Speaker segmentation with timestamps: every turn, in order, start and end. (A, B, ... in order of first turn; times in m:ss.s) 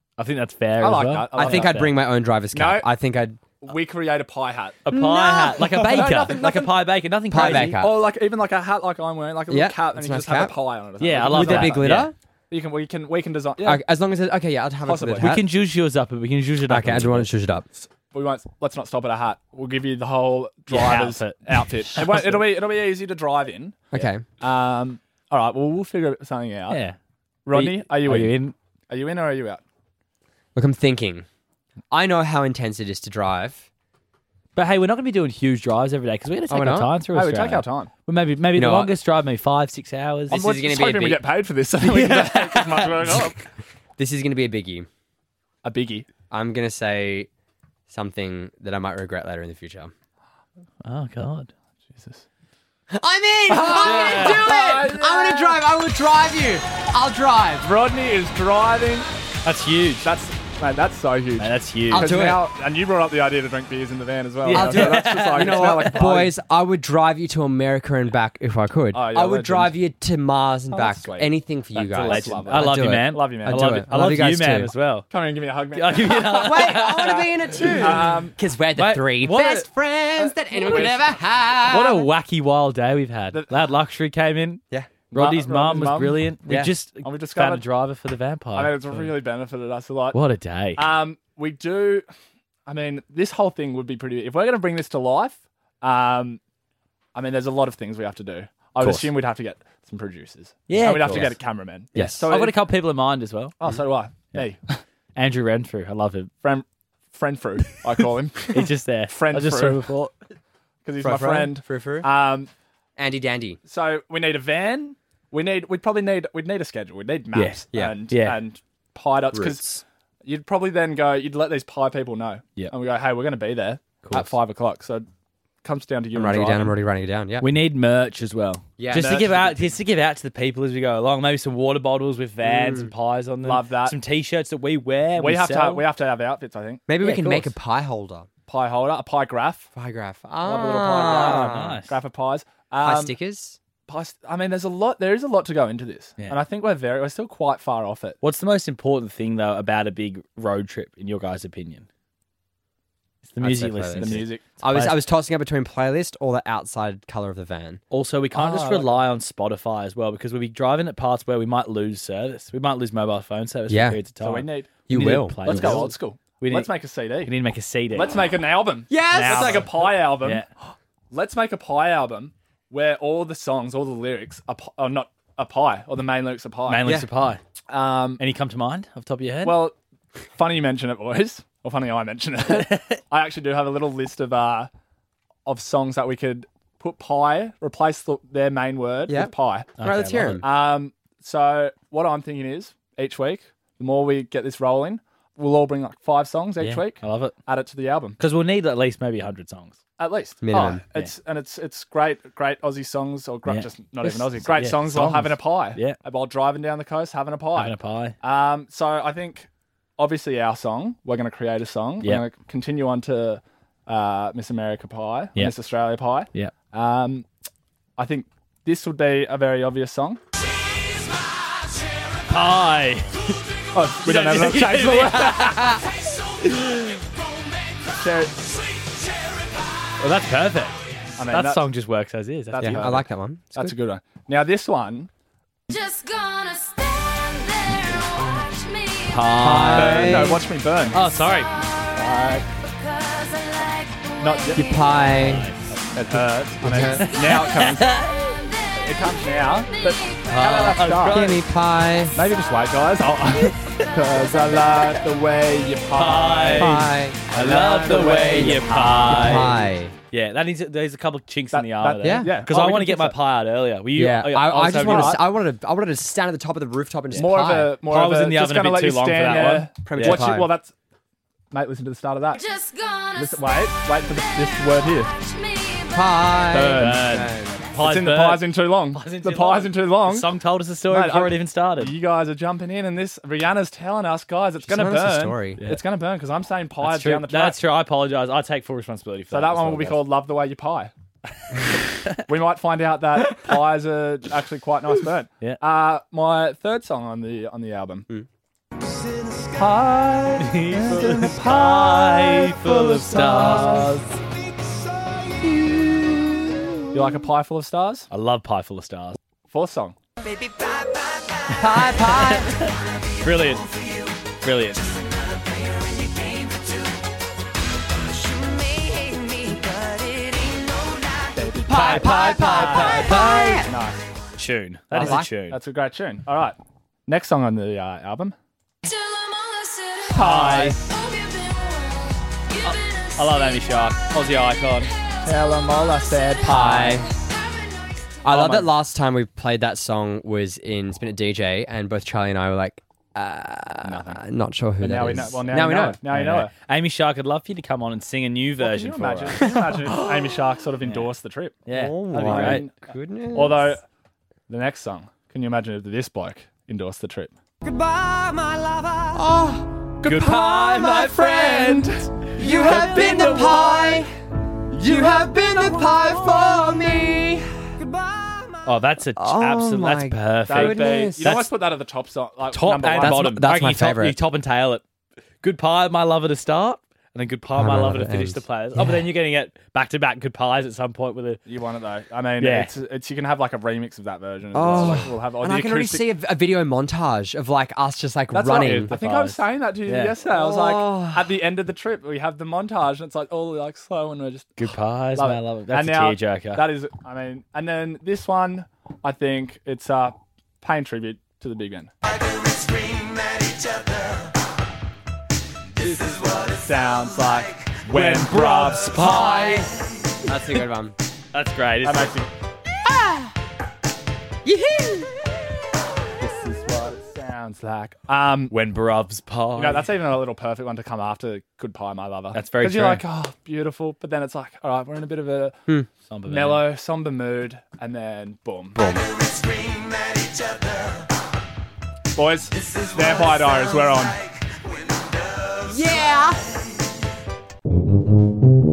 0:00.2-0:01.9 A
0:00.8-0:01.9 B
0:01.3-0:03.4 C
0:02.5-0:02.9 B
0:03.6-0:04.9 B
0:04.9-0:07.8 A
0:04.9-0:05.8 C
0:05.8-0:06.8 B
0:07.3-0:08.0 C
0:07.3-0:12.0 B
0:09.5-0:10.6 C
0:11.0-0:12.1 A
0:11.2-0:12.1 C
0:12.5-0:13.8 B
0:13.6-0:15.4 C
0:14.8-0:15.4 B
0:15.2-0:17.3 A
0:16.7-0:17.7 C
0:17.8-0:26.8 B
0:20.7-0:22.4 A
0:23.9-0:24.2 C
0:26.7-0:27.0 A
0:27.4-0:29.6 B
0:27.5-0:28.5 A
0:30.5-0:31.2 C
0:31.9-0:33.6 C
0:34.6-0:40.4 A
0:36.5-0:36.9 C
0:37.1-0:37.9 B
0:38.5-0:38.9 C
0:40.3-0:43.4 B
0:40.3-0:41.2 C
0:41.8-0:43.2 A
0:44.0-0:44.9 C
0:45.6-0:46.1 B
0:46.3-0:47.3 C
0:47.9-0:49.9 C
0:50.8-0:52.2 A
0:52.9-0:57.7 C
0:53.5-0:55.6 B
0:53.6-0:54.5 A
0:57.6-0:59.1 B
0:59.4-1:00.1 A
1:00.0-1:06.3 B
1:01.4-1:02.2 A
1:01.9-1:02.5 C
1:04.4-1:06.0 A
1:04.5-1:14.7 C
1:08.9-1:09.8 B
1:10.7-1:13.9 B
1:12.0-1:15.1 A
1:15.1-1:18.4 B
1:15.7-1:17.7 A
1:16.2-1:22.1 C
1:18.8-1:19.7 A
1:20.5-1:21.0 B
1:21.6-1:24.6 A
1:23.3-1:23.6 B
1:25.1-1:27.6 B
1:25.1-1:29.1 A
1:26.5-1:26.7 C
1:28.5-1:30.2 B
1:30.1-1:30.8 A
1:30.8-1:32.0 B
1:32.6-1:36.4 B
1:37.1-1:42.6 B
1:38.8-1:39.1 A
1:40.7-1:41.4 A
1:41.9-1:42.3 C
1:42.0-1:43.6 A
1:43.6-1:44.8 B
1:45.1-1:46.3 A
1:46.4-1:49.8 B
1:48.5-1:50.1 A
1:50.8-1:52.5 B
1:51.0-1:52.1 C
1:53.0-1:53.6 C
1:53.6-2:05.1 B
1:57.3-1:58.4 A
1:57.7-1:58.0 C
1:59.3-1:59.8 C
2:04.0-2:04.3 A
2:05.6-2:06.7 B
2:06.1-2:07.5 C
2:07.4-2:15.8 A
2:08.8-2:09.7 C
2:08.9-2:09.3 B
2:12.4-2:12.9 C
2:13.4-2:14.0 B
2:15.2-2:17.5 B
2:16.9-2:18.3 C
2:18.5-2:19.7 B
2:19.8-2:21.8 C
2:20.4-2:23.1 B
2:21.0-2:21.9 A
2:22.8-2:23.6 C
2:23.9-2:28.2 B
2:28.2-2:31.8 A
2:33.2-2:35.0 A
2:33.4-2:37.8 C
2:34.0-2:34.4 B
2:37.9-2:48.1 A
2:38.3-2:39.0 B
2:43.7-2:44.0 C
2:44.2-2:44.8 B
2:44.9-2:45.9 C
2:45.4-2:47.3 B
2:47.9-2:50.4 B
2:48.9-2:49.7 C
2:49.1-2:50.5 A
2:51.1-2:57.0 B
2:56.7-2:57.4 A
2:57.7-2:58.2 B
2:58.2-2:59.6 A
2:59.4-2:59.7 B
3:00.3-3:04.7 B
3:05.4-3:09.8 B
3:09.1-3:10.4 C
3:09.8-3:10.4 A
3:10.4-3:18.2 B
3:16.6-3:17.4 A
3:18.2-3:19.8 A
3:20.0-3:37.3 B
3:20.4-3:20.8 C
3:23.5-3:26.0 A
3:27.6-3:28.2 A
3:38.0-3:40.2 B
3:42.2-3:43.2 A
3:43.7-3:45.8 B
3:44.0-3:45.8 A
3:46.4-3:47.0 A
3:48.0-3:48.5 B
3:50.0-3:53.0 A
3:51.2-3:51.6 B
3:52.6-3:53.7 C
3:52.6-3:55.1 B
3:55.7-3:59.5 D
3:59.1-4:00.3 A
3:59.4-4:00.4 C
3:59.6-4:01.0 B
4:00.9-4:01.5 A
4:00.9-4:05.0 D
4:01.9-4:02.4 B
4:04.2-4:04.8 B
4:04.5-4:05.4 C
4:05.1-4:06.2 A
4:05.7-4:08.0 B
4:06.6-4:07.0 C
4:07.0-4:08.8 D
4:07.0-4:08.3 A
4:08.8-4:11.3 B
4:09.7-4:10.3 D
4:10.2-4:11.4 A
4:11.1-4:12.2 C
4:12.1-4:19.6 B
4:15.9-4:25.2 A
4:16.5-4:19.9 C
4:21.5-4:23.2 B
4:22.0-4:22.3 C
4:24.0-4:27.8 C
4:24.5-4:25.2 B
4:27.1-4:30.3 A
4:27.1-4:30.7 B
4:29.8-4:30.5 C
4:31.5-4:32.4 B
4:32.3-4:36.6 D
4:33.1-4:35.1 B
4:35.9-4:37.6 C
4:36.5-4:41.9 A
4:36.6-4:37.0 B
4:37.7-4:40.3 B
4:40.9-4:47.6 B
4:44.6-4:45.6 C
4:46.8-4:50.0 A
4:49.3-4:50.9 B
4:52.2-4:58.1 B
4:59.4-5:03.9 B
5:00.4-5:04.2 A
5:02.6-5:03.9 C
5:05.2-5:07.2 C
5:06.9-5:08.1 B
5:08.1-5:09.2 A
5:09.5-5:09.9 B
5:11.5-5:12.5 C
5:11.5-5:13.8 A
5:14.4-5:14.9 A
5:15.6-5:16.8 D
5:18.2-5:20.5 C
5:20.6-5:21.0 D
5:21.4-5:24.0 B
5:21.6-5:23.6 A
5:21.6-5:23.7 C
5:22.3-5:22.8 D
5:24.4-5:25.6 A
5:24.9-5:25.3 C
5:24.9-5:28.3 B
5:28.8-5:33.6 D
5:30.1-5:30.8 B
5:30.1-5:30.8 A
5:32.6-5:34.9 A
5:35.2-5:37.1 B
5:36.5-5:37.1 C
5:36.5-5:36.9 A
5:36.6-5:37.9 D
5:38.2-5:46.0 C
5:38.3-5:38.7 B
5:43.8-5:44.2 B
5:44.8-5:46.5 B
5:46.1-5:50.0 A
5:48.6-5:52.7 B
5:49.4-5:49.8 C
5:50.8-5:51.1 A
5:51.7-5:52.6 A
5:51.7-5:53.8 C
5:53.3-5:53.8 B
5:54.5-5:57.3 B
5:57.6-5:59.8 C
6:00.0-6:04.0 B
6:00.0-6:01.4 A
6:00.6-6:01.8 C
6:02.4-6:04.1 C
6:02.4-6:03.6 A
6:04.7-6:11.4 C
6:08.6-6:11.5 A
6:10.5-6:13.4 B
6:12.5-6:14.8 A
6:13.0-6:14.2 C
6:15.4-6:21.4 A
6:17.5-6:18.4 C
6:21.4-6:26.0 B
6:22.4-6:22.7 A
6:24.5-6:28.9 C
6:24.6-6:25.0 A
6:28.3-6:41.9 B
6:28.9-6:30.2 A
6:30.2-6:31.3 C
6:34.6-6:36.7 A
6:45.8-6:49.5 B
6:47.8-6:49.6 A
6:49.3-6:49.6 C
6:50.2-6:50.9 C
6:51.3-6:52.1 A
6:51.8-6:52.3 B
6:52.8-6:53.3 C
6:54.4-6:55.2 C
6:56.2-6:58.5 B
6:58.5-6:59.9 A
6:59.5-7:05.6 B
7:02.3-7:03.0 A
7:06.1-7:06.6 A
7:06.3-7:08.9 B
7:08.8-7:09.0 C
7:09.1-7:10.6 D
7:12.1-7:14.2 B
7:15.6-7:16.4 C